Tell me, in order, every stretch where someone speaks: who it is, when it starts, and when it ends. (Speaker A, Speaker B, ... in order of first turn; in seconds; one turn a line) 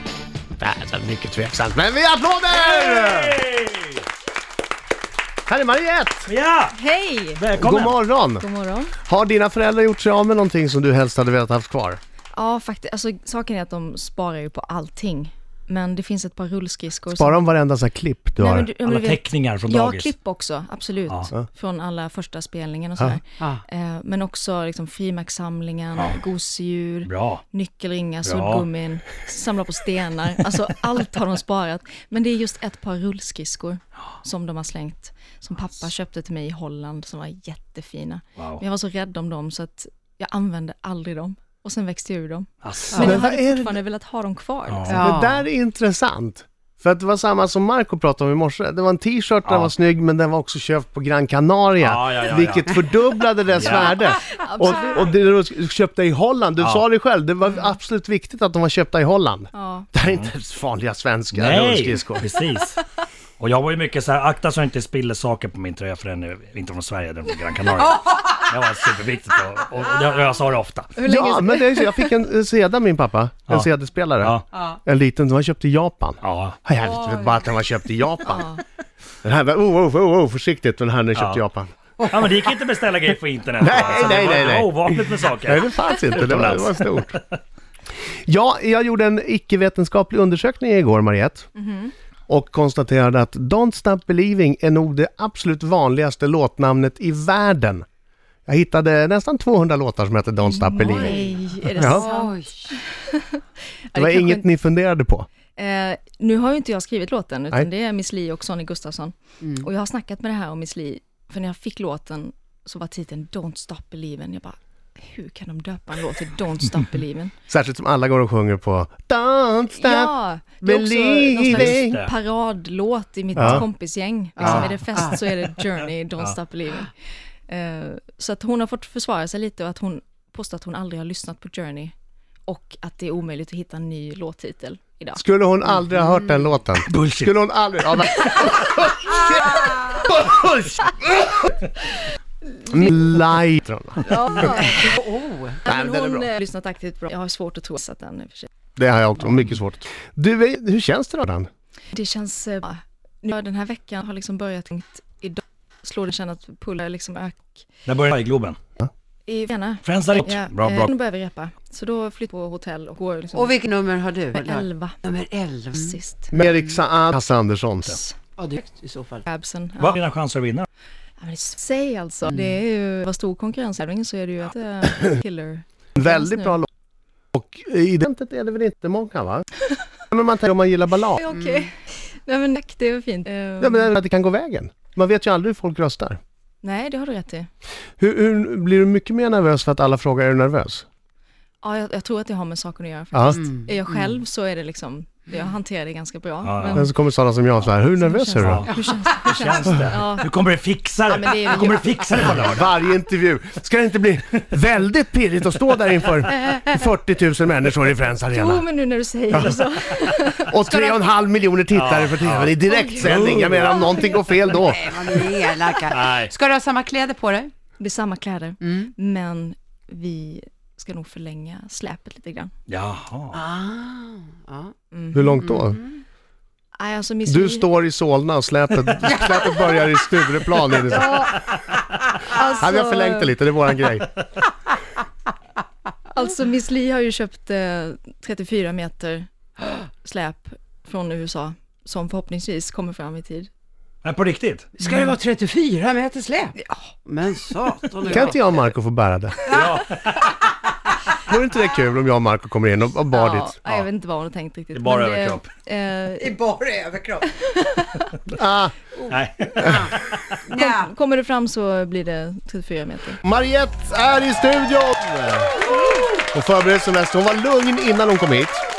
Speaker A: 0.6-3.4
Speaker B: 2.5-4.0
Speaker A: 5.5-6.3
Speaker B: 6.3-6.8
Speaker C: 6.7-7.4
Speaker B: 7.3-8.0
Speaker A: 7.5-8.4
Speaker C: 8.3-8.9
Speaker A: 9.0-12.0
Speaker C: 12.3-17.5
Speaker A: 17.1-18.7
Speaker C: 18.4-45.0
Speaker B: 18.8-20.1
Speaker B: 27.1-27.4
Speaker B: 28.2-28.7
Speaker B: 38.4-38.6
Speaker B: 42.6-43.2
Speaker A: 43.0-43.8
Speaker B: 44.7-45.0
Speaker A: 44.9-62.3
Speaker D: 44.9-45.4
Speaker B: 49.5-49.7
Speaker B: 51.8-52.9
Speaker B: 53.5-54.1
Speaker C: 54.1-55.1
Speaker C: 57.5-57.8
Speaker C: 59.5-59.9
Speaker B: 60.0-60.3
Speaker B: 61.3-62.8
Speaker B: 63.4-70.9
Speaker D: 67.8-68.5
Speaker C: 71.0-72.2
Speaker A: 71.1-78.5
Speaker D: 74.5-74.8
Speaker B: 76.2-76.6
Speaker D: 76.8-77.4
Speaker C: 78.3-78.6
Speaker A: 79.2-81.7
Speaker B: 81.2-81.4
Speaker B: 82.1-87.2
Speaker A: 83.6-87.2
Speaker A: 88.3-91.5
Speaker C: 91.5-91.9
Speaker A: 92.3-97.8
Speaker A: 98.5-102.1
Speaker C: 100.5-104.5
Speaker D: 100.8-102.8
Speaker A: 103.9-105.3
Speaker C: 105.6-117.3
Speaker A: 117.5-122.0
Speaker C: 119.7-126.9
Speaker B: 121.5-122.1
Speaker B: 123.3-123.6
Speaker A: 123.4-123.7
Speaker D: 124.4-125.2
Speaker C: 127.5-131.9
Speaker C: 132.5-135.2
Speaker A: 135.2-141.5
Speaker D: 136.0-136.4
Speaker B: 136.9-137.3
Speaker C: 138.3-138.5
Speaker C: 142.6-142.9
Speaker A: 142.7-144.6
Speaker C: 144.0-144.9
Speaker D: 144.4-145.6
Speaker A: 145.7-146.3
Speaker C: 145.7-148.5
Speaker A: 148.8-151.5
Speaker C: 151.9-157.7
Speaker B: 157.9-158.6
Speaker C: 159.3-163.6
Speaker B: 159.8-160.9
Speaker D: 163.3-166.5
Speaker C: 164.3-165.0
Speaker C: 165.7-166.3
Speaker A: 166.3-168.0
Speaker D: 168.4-169.2
Speaker C: 169.2-170.0
Speaker B: 169.8-170.7
Speaker C: 171.2-176.6
Speaker D: 172.3-172.6
Speaker A: 176.0-176.7
Speaker A: 177.3-179.5
Speaker A: 180.1-181.2
Speaker C: 181.1-183.9
Speaker D: 181.3-181.7
Speaker A: 183.6-186.2
Speaker C: 186.6-187.5
Speaker A: 188.0-190.8
Speaker C: 191.6-196.9
Speaker A: 193.1-193.4
Speaker D: 193.4-194.1
Speaker B: 196.4-196.9
Speaker A: 196.8-198.7
Speaker C: 198.0-200.3
Speaker B: 198.4-202.7
Speaker C: 201.1-201.9
Speaker A: 202.3-208.7
Speaker C: 208.3-211.1
Speaker A: 209.3-209.6
Speaker A: 210.4-214.8
Speaker B: 211.7-214.2
Speaker C: 212.7-214.5
Speaker D: 214.6-217.5
Speaker B: 215.9-216.3
Speaker C: 217.8-222.5
Speaker D: 218.6-218.9
Speaker B: 222.7-223.4
Speaker D: 223.3-224.7
Speaker C: 224.9-225.4
Speaker A: 225.1-225.8
Speaker D: 225.4-226.0
Speaker C: 226.8-227.7
Speaker A: 227.3-231.3
Speaker C: 230.8-231.5
Speaker C: 232.3-233.3
Speaker A: 232.6-234.1
Speaker C: 236.1-239.3
Speaker C: 240.0-243.5
Speaker B: 244.0-244.8
Speaker D: 244.8-248.4
Speaker C: 246.6-246.9
Speaker A: 248.1-249.4
Speaker D: 249.5-249.8
Speaker B: 249.5-250.4
Speaker A: 251.2-253.5
Speaker C: 253.1-256.3
Speaker B: 254.7-255.5
Speaker D: 256.2-257.3
Speaker C: 257.4-258.1
Speaker A: 258.3-258.8
Speaker B: 259.1-260.2
Speaker D: 259.6-260.9
Speaker C: 260.5-263.2
Speaker A: 263.2-265.5
Speaker A: 266.2-268.6